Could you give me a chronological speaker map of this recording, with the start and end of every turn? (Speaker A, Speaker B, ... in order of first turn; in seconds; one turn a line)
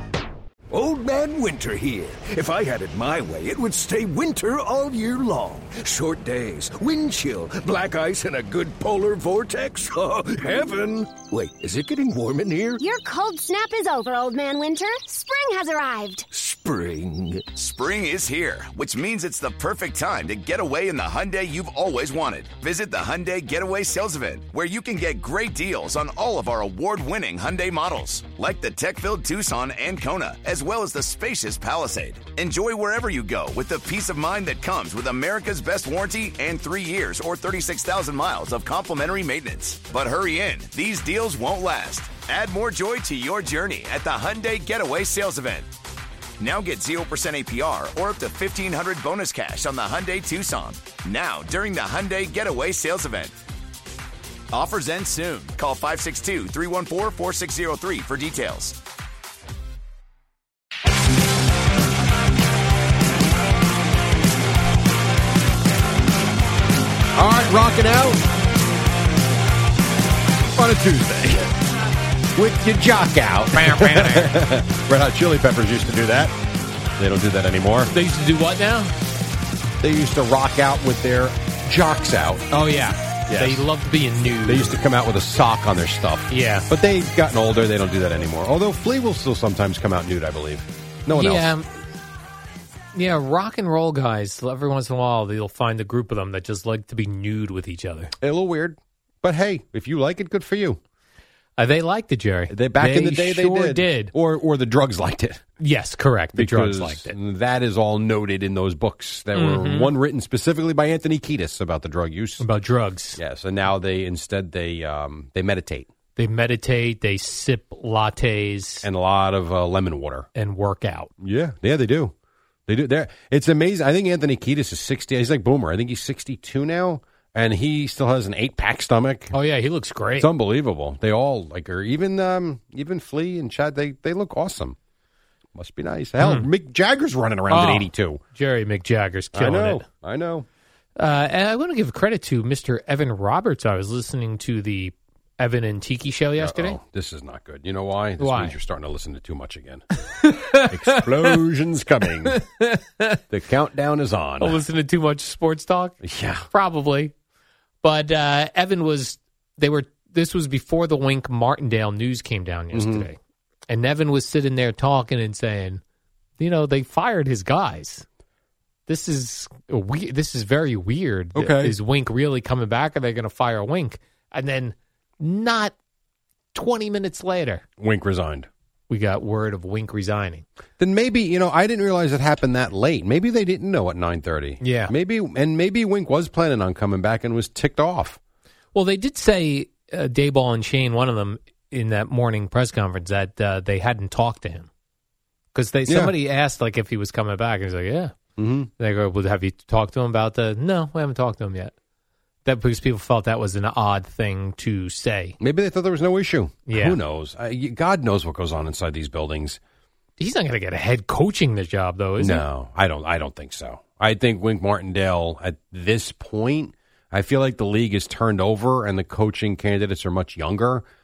Speaker A: 0.7-12.8
Speaker B: 12.8-16.2
Speaker A: 16.3-17.4
Speaker C: 17.5-45.7
Speaker C: 46.4-53.4
Speaker C: 54.5-58.8
Speaker D: 67.2-68.2
Speaker D: 70.5-71.5
Speaker D: 72.3-76.3
Speaker E: 73.5-74.4
Speaker D: 77.0-77.9
Speaker E: 77.9-78.9
Speaker D: 79.8-82.5
Speaker E: 82.5-84.8
Speaker D: 83.3-83.6
Speaker D: 84.5-91.5
Speaker E: 86.3-86.7
Speaker E: 91.1-91.7
Speaker E: 92.9-98.1
Speaker D: 98.2-100.8
Speaker E: 101.6-104.1
Speaker D: 102.5-105.4
Speaker E: 105.6-107.1
Speaker D: 106.3-112.4
Speaker E: 109.3-110.0
Speaker E: 112.4-113.2
Speaker D: 113.2-115.9
Speaker E: 116.2-118.8
Speaker D: 118.8-120.3
Speaker E: 120.3-121.1
Speaker D: 121.2-122.1
Speaker D: 122.7-129.3
Speaker E: 129.3-130.3
Speaker D: 130.2-134.8
Speaker D: 135.5-138.2
Speaker E: 136.2-136.5
Speaker E: 137.5-139.8
Speaker D: 139.3-140.4
Speaker E: 141.0-146.8
Speaker D: 146.4-149.8
Speaker E: 148.2-148.6
Speaker E: 150.2-151.3
Speaker D: 150.6-152.4
Speaker E: 152.3-153.2
Speaker D: 153.3-154.6
Speaker E: 154.4-156.0
Speaker D: 156.0-156.5
Speaker E: 156.5-157.1
Speaker E: 157.8-163.2
Speaker D: 162.7-163.1
Speaker E: 163.7-165.8
Speaker E: 166.4-168.1
Speaker E: 168.9-175.7
Speaker D: 171.3-171.8
Speaker E: 176.5-177.6
Speaker D: 177.8-178.5
Speaker E: 178.9-180.4
Speaker D: 180.8-188.2
Speaker E: 184.6-184.9
Speaker E: 188.7-194.7
Speaker E: 195.5-198.1
Speaker D: 195.9-196.1
Speaker D: 198.4-198.7
Speaker E: 198.8-201.7
Speaker E: 202.4-205.4
Speaker D: 205.4-209.6
Speaker E: 206.7-207.0
Speaker E: 210.2-212.4
Speaker D: 212.2-220.8